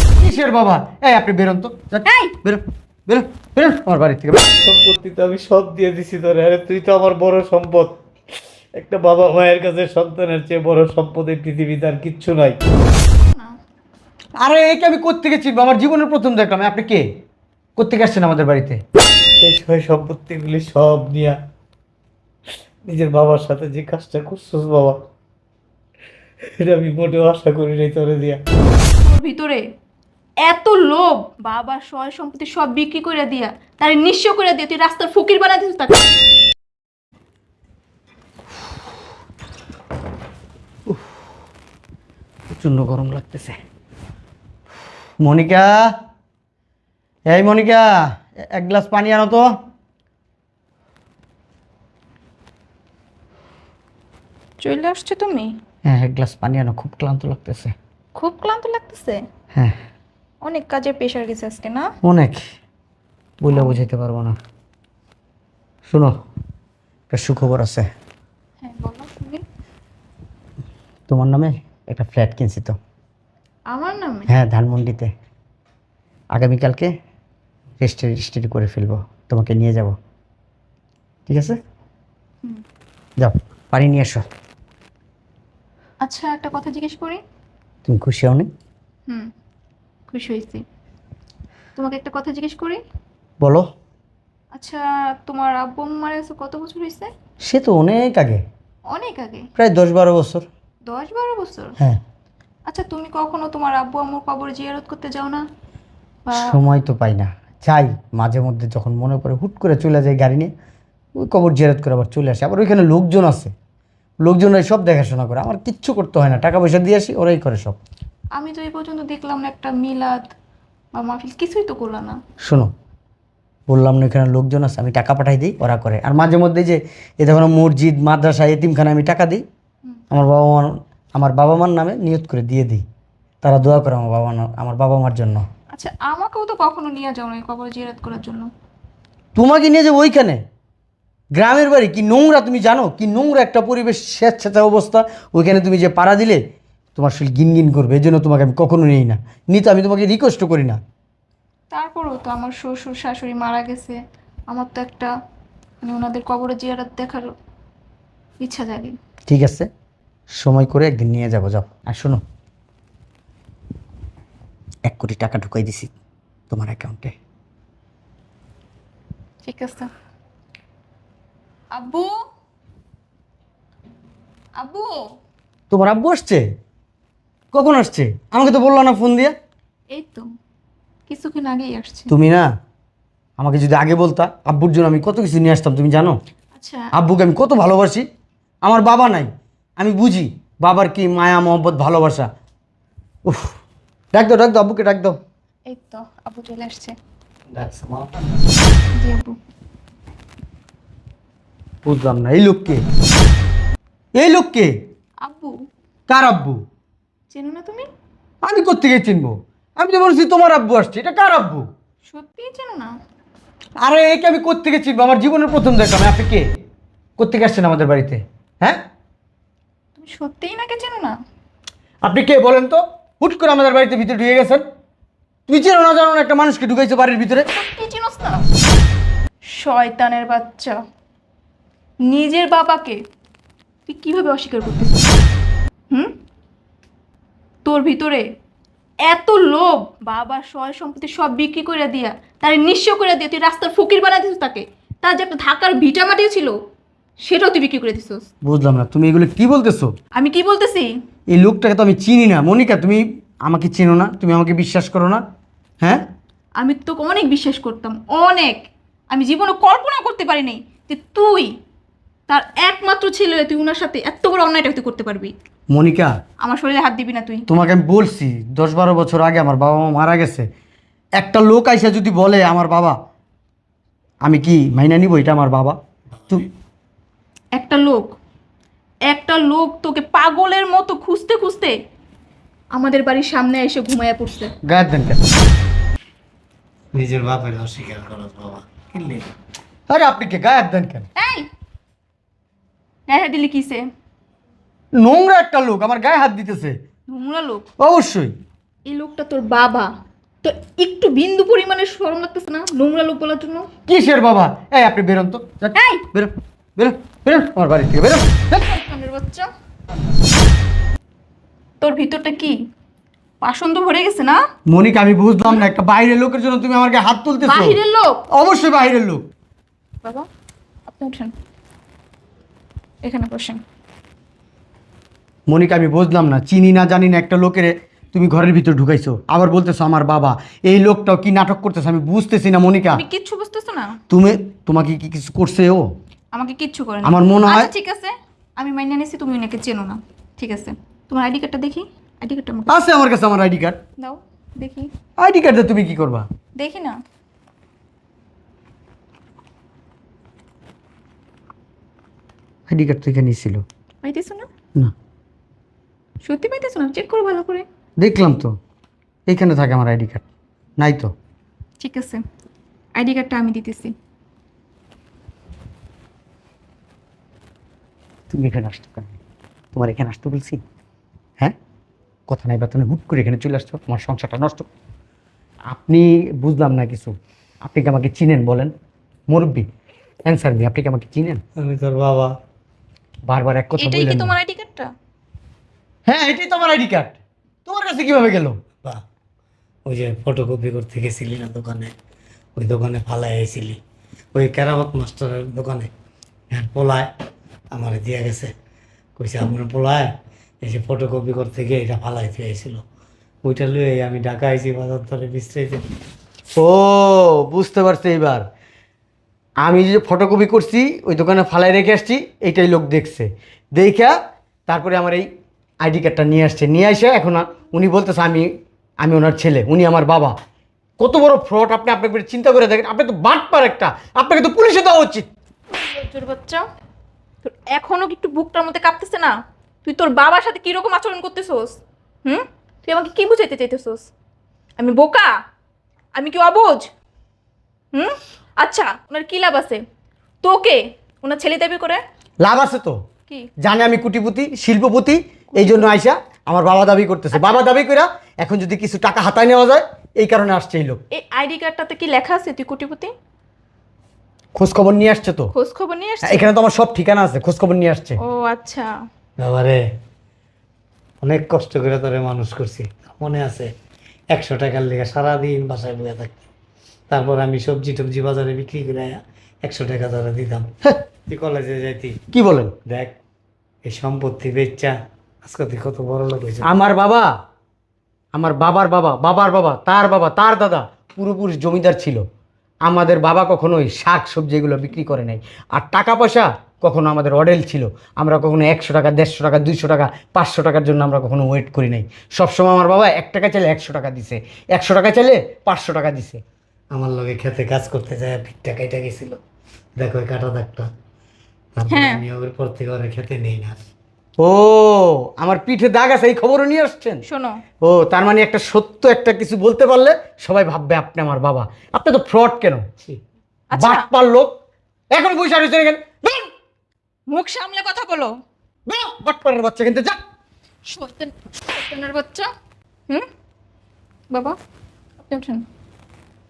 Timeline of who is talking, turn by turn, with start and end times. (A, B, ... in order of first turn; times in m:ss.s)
0:00.2-0:04.6 A
0:02.0-0:02.3 B
0:04.6-0:08.0 C
0:08.8-0:12.6 C
0:13.2-0:13.6 B
0:14.4-0:17.1 A
0:17.8-0:18.8 A
0:19.4-0:21.4 C
0:22.9-0:25.0 C
0:26.6-0:28.4 C
0:29.0-0:29.6 B
0:30.4-0:36.0 B
0:42.5-0:43.6 A
0:45.2-0:46.0 A
0:47.3-0:49.6 A
0:54.6-0:55.6 B
0:55.9-0:57.7 A
0:58.2-0:59.2 B
1:00.4-1:01.9 B
1:02.0-1:02.4 A
1:03.4-1:04.4 A
1:03.5-1:03.8 B
1:05.9-1:06.2 A
1:07.1-1:07.9 A
1:08.6-1:09.4 B
1:11.1-1:12.8 A
1:13.7-1:14.3 B
1:14.3-1:15.1 A
1:16.3-1:16.9 A
1:17.8-1:20.0 A
1:21.3-1:21.6 A
1:23.2-1:24.3 A
1:26.0-1:27.2 B
1:27.9-1:28.5 A
1:30.1-1:30.6 B
1:31.8-1:32.8 B
1:33.4-1:33.7 A
1:34.6-1:37.1 B
1:37.4-1:38.4 A
1:38.9-1:39.5 B
1:39.6-1:40.5 A
1:40.9-1:41.8 B
1:42.7-1:45.4 B
1:46.3-1:46.6 B
1:46.3-1:50.5 A
1:51.2-1:53.5 A
1:54.2-1:57.8 A
1:58.4-2:00.3 B
2:01.0-2:02.2 B
2:02.4-2:02.7 A
2:03.7-2:09.4 A
2:10.1-2:12.8 A
2:13.4-2:15.5 A
2:15.7-2:18.5 B
2:19.4-2:20.4 A
2:21.4-2:26.4 A
2:27.0-2:30.8 A
2:31.7-2:34.0 B
2:34.5-2:35.1 B
2:35.8-2:37.3 B
2:38.4-2:39.0 B
2:39.3-2:39.7 A
2:40.4-2:42.2 A
2:44.9-2:45.9 A
2:46.5-2:47.2 A
2:49.4-2:49.9 B
2:51.7-2:52.1 B
2:54.6-2:55.0 B
2:55.7-2:56.5 A
2:57.5-2:59.4 A
2:59.9-3:00.3 B
3:01.1-3:02.1 B
3:02.1-3:02.5 A
3:03.4-3:06.2 A
3:06.6-3:06.9 B
3:06.9-3:08.1 A
3:08.6-3:12.3 A
3:13.3-3:13.6 A
3:14.1-3:15.2 A
3:15.7-3:17.0 B
3:17.5-3:18.3 C
3:19.0-3:19.4 B
3:21.8-3:22.8 A
3:24.2-3:24.7 A
3:25.2-3:25.5 B
3:26.1-3:26.6 A
3:27.3-3:27.9 B
3:28.4-3:31.7 A
3:32.1-3:32.9 B
3:33.8-3:36.5 A
3:37.2-3:38.8 A
3:40.0-3:41.2 B
3:42.0-3:44.6 A
3:45.5-3:47.5 A
3:47.5-3:48.5 B
3:49.5-3:50.8 B
3:52.1-3:53.0 B
3:53.9-3:55.2 B
3:57.6-3:58.2 B
3:59.0-4:06.6 B
4:07.2-4:08.3 B
4:08.4-4:09.9 A
4:10.2-4:10.9 B
4:11.3-4:15.2 A
4:16.6-4:21.5 B
4:22.3-4:25.3 B
4:25.7-4:26.1 A
4:26.4-4:27.4 B
4:27.5-4:30.5 A
4:31.2-4:33.0 A
4:34.2-4:35.8 A
4:37.5-4:38.2 B
4:39.1-4:41.8 B
4:42.7-4:44.5 B
4:44.6-4:45.2 A
4:46.9-4:49.3 C
4:49.9-4:51.1 A
4:51.2-4:51.5 B
4:53.1-4:53.8 B
4:55.0-4:56.8 A
4:57.1-4:57.7 B
4:57.8-4:58.3 A
4:58.9-4:59.9 B
5:00.4-5:03.7 B
5:03.9-5:08.6 A
5:05.7-5:06.1 B
5:08.6-5:09.5 B
5:11.8-5:12.6 B
5:13.4-5:14.4 B
5:14.7-5:17.8 A
5:17.4-5:18.2 B
5:18.3-5:19.2 A
5:20.9-5:21.3 B
5:23.0-5:23.6 B
5:25.5-5:33.0 A
5:32.9-5:34.0 B
5:34.1-5:35.9 A
5:36.3-5:42.8 B
5:37.0-5:37.7 A
5:42.7-5:43.8 A
5:44.0-5:44.9 B
5:45.2-5:46.3 A
5:46.6-5:47.0 B
5:52.7-5:53.6 A
5:54.0-5:54.5 B
5:56.2-5:57.7 B
5:58.0-5:58.6 A
5:59.3-6:00.2 A
6:00.8-6:01.1 A
6:01.8-6:02.2 B
6:03.0-6:03.9 B
6:08.3-6:09.2 A
6:09.7-6:10.6 A
6:12.3-6:14.7 A
6:15.7-6:18.7 A
6:19.3-6:19.7 A
6:20.3-6:21.4 A
6:21.6-6:22.3 C
6:23.3-6:24.4 A
6:23.8-6:24.9 B
6:26.1-6:28.6 A
6:29.9-6:31.9 C
6:32.6-6:33.8 C
6:34.3-6:35.9 C
6:36.5-6:37.1 C
6:37.7-6:38.5 C
6:39.2-6:42.8 C
6:43.4-6:45.9 C
6:46.6-6:48.5 A
6:49.6-6:55.3 A
6:55.8-6:58.5 A
6:59.0-7:00.3 A
7:01.0-7:05.3 A
7:05.7-7:06.6 B
7:07.4-7:14.1 B
7:14.8-7:15.3 B
7:16.2-7:16.9 B
7:17.9-7:19.8 B
7:20.4-7:22.0 B
7:22.4-7:23.0 A
7:23.6-7:31.0 A
7:25.5-7:25.9 B
7:27.3-7:27.6 B
7:31.1-7:33.1 B
7:34.6-7:35.5 A
7:35.5-7:36.5 B
7:36.2-7:38.2 A
7:38.2-7:38.9 B
7:39.4-7:39.8 C
7:41.2-7:43.7 C
7:44.3-7:46.4 C
7:47.1-7:50.7 C
7:51.3-7:52.2 C
7:52.3-7:52.8 A
7:52.9-7:53.2 C
7:53.8-7:56.7 C
7:56.6-7:57.3 A
7:58.3-8:02.2 A
8:02.9-8:16.4 A
8:16.9-8:19.4 C
8:20.0-8:20.9 C
8:21.8-8:23.9 C
8:21.9-8:22.2 B
8:24.4-8:27.2 A
8:27.3-8:27.6 B
8:27.8-8:32.9 A
8:33.7-8:34.1 B
8:33.8-8:34.5 A
8:35.1-8:36.5 A
8:37.3-8:38.3 B
8:38.9-8:40.2 A
8:40.9-8:42.5 B
8:44.3-8:44.6 B
8:45.2-8:45.6 B